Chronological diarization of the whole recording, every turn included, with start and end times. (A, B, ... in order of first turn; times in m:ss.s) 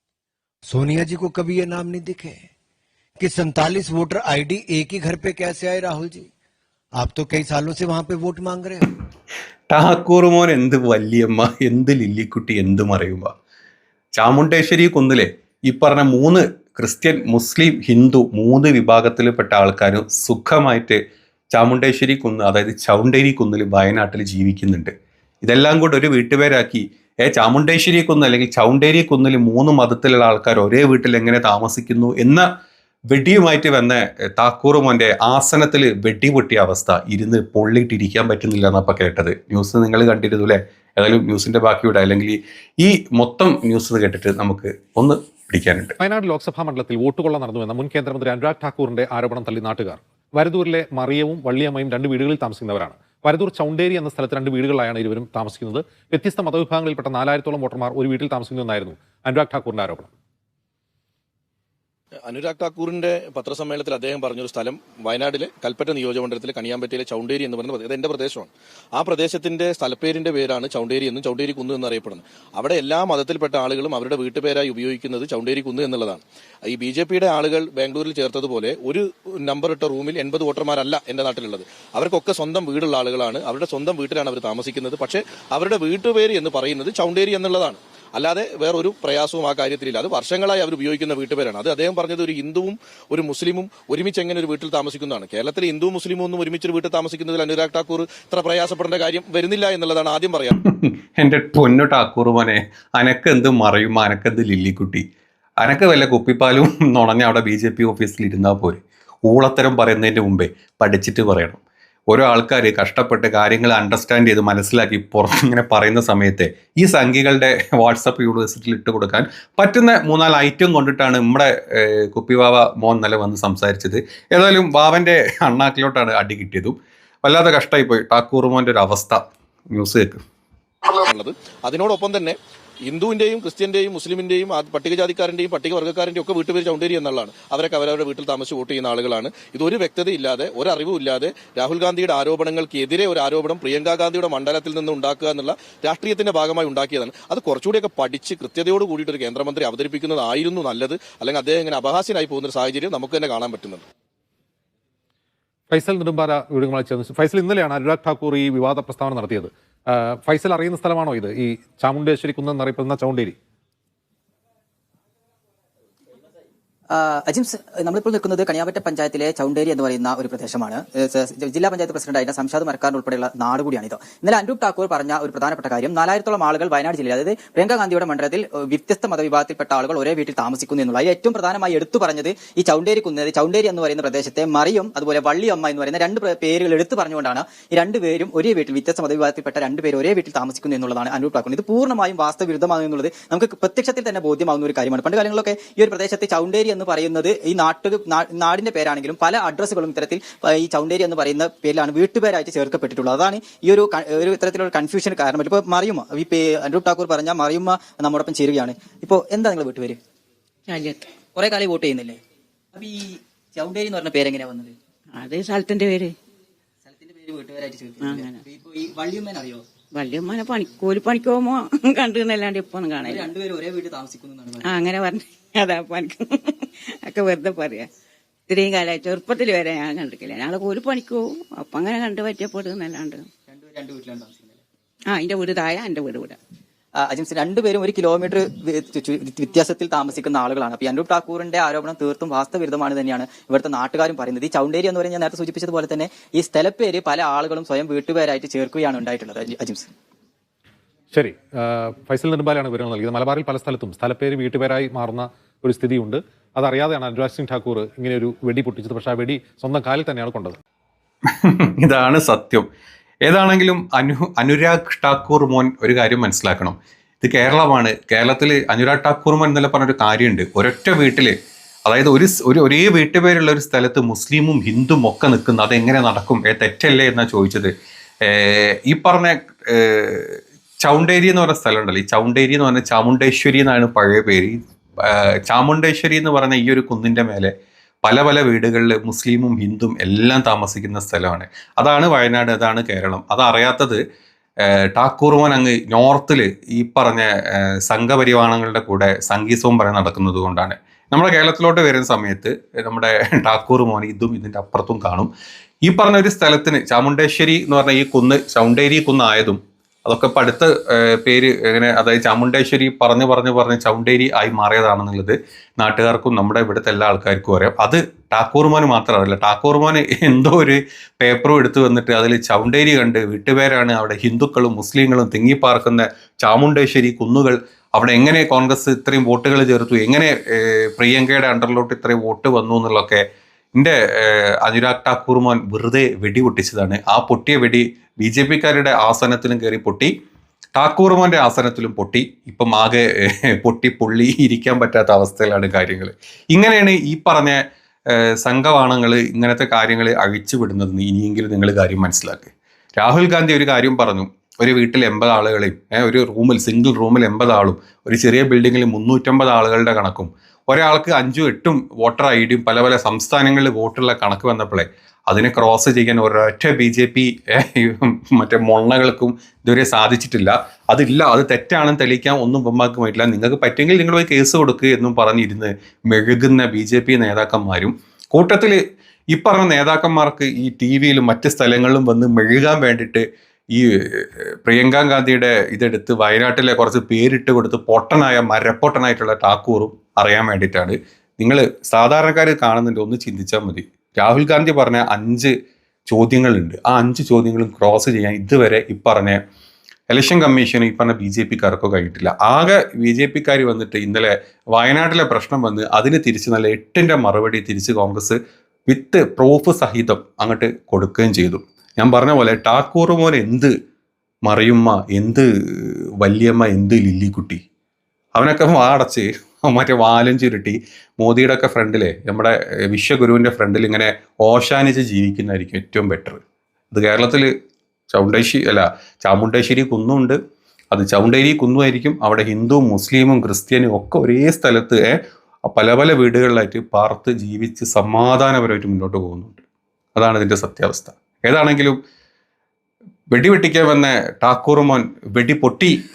0:00.7-0:02.4 A
0:03.2-0:06.3 A
0:07.0-0:08.9 A
0:09.7-0:13.3 B
0:14.1-0:21.0 B
0:21.5-0:24.9 B
0:25.4-0:32.5 B
0:33.1-0:45.9 B
0:46.0-1:00.1 C
1:02.2-1:40.6 D
1:40.6-1:45.0 B
1:45.6-1:51.6 B
1:52.1-2:10.2 B
2:10.9-2:33.8 D
2:35.7-2:43.4 C
2:46.9-3:30.0 E
3:30.7-3:31.1 F
3:31.3-3:32.2 E
3:32.7-3:34.8 E
3:35.1-3:36.2 F
3:36.8-3:39.6 E
3:38.0-3:38.4 F
3:39.9-3:43.3 F
3:43.0-3:44.8 E
3:44.6-3:47.9 F
3:48.5-3:53.3 F
3:53.5-3:54.6 E
3:55.1-3:56.4 F
3:57.0-4:09.9 E
4:11.1-4:20.6 C
4:21.3-4:22.6 B
4:23.2-4:31.3 B
4:31.8-4:47.5 B
4:48.0-4:54.0 B
4:54.6-5:05.3 B
5:05.8-5:33.2 B
5:33.7-5:40.1 B
5:40.7-6:18.8 B
6:19.3-6:35.5 B
6:36.1-6:39.4 B
6:40.1-6:48.4 B
6:48.9-6:53.7 B
6:54.4-6:57.6 B
6:58.3-7:06.4 B
7:06.9-7:07.5 B
7:08.1-7:10.4 B
7:10.9-7:19.6 B
7:20.2-7:22.0 B
7:23.3-7:26.0 B